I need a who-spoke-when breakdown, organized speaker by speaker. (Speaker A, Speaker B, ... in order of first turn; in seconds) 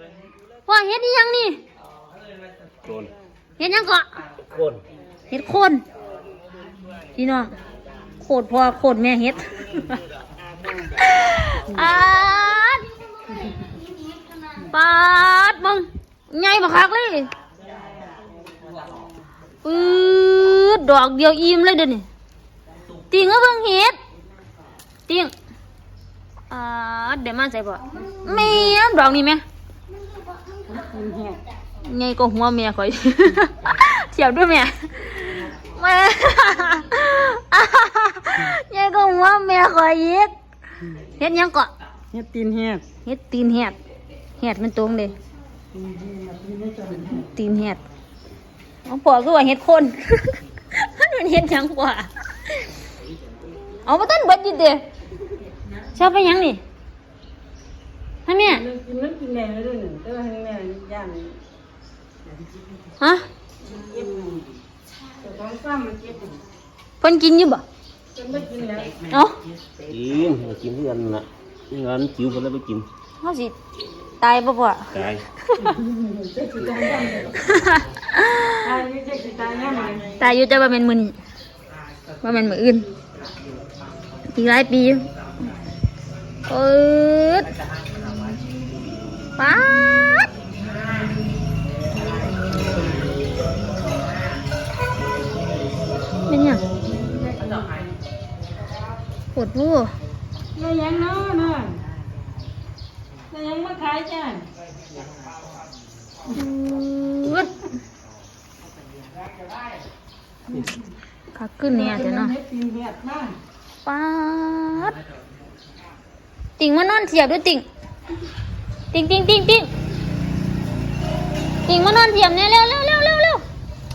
Speaker A: 0.7-1.6, 3.6-4.1, 5.3-5.8, 7.2-7.5, 8.2-10.0, 11.0-12.9, 14.5-17.3, 19.6-22.1, 23.1-24.0, 25.1-25.3, 26.5-29.4, 31.8-40.3, 41.2-41.7, 43.0-43.8, 44.4-45.1, 47.3-47.8, 48.8-52.6, 53.8-54.8, 55.9-56.6, 58.3-58.6, 63.0-63.3, 67.0-67.6, 69.1-69.4, 73.2-73.5, 74.2-75.8, 77.3-78.7, 80.2-81.2, 82.2-82.9, 84.2-85.0, 86.5-87.5, 89.4-90.3, 96.3-96.6, 99.3-99.9, 106.3-107.6, 111.3-112.3, 113.8-115.0, 116.6-117.6, 118.9-119.7, 121.7-123.4
Speaker B: 2.8-3.1, 4.5-4.8, 69.9-72.9, 74.9-75.2
Speaker C: 30.6-31.4, 42.1-42.8, 45.7-47.2, 58.4-61.4, 63.6-64.5, 65.2-66.4, 68.1-69.0, 75.6-77.4, 78.6-80.1, 97.2-97.8, 100.5-101.8, 103.3-104.5, 111.6-113.4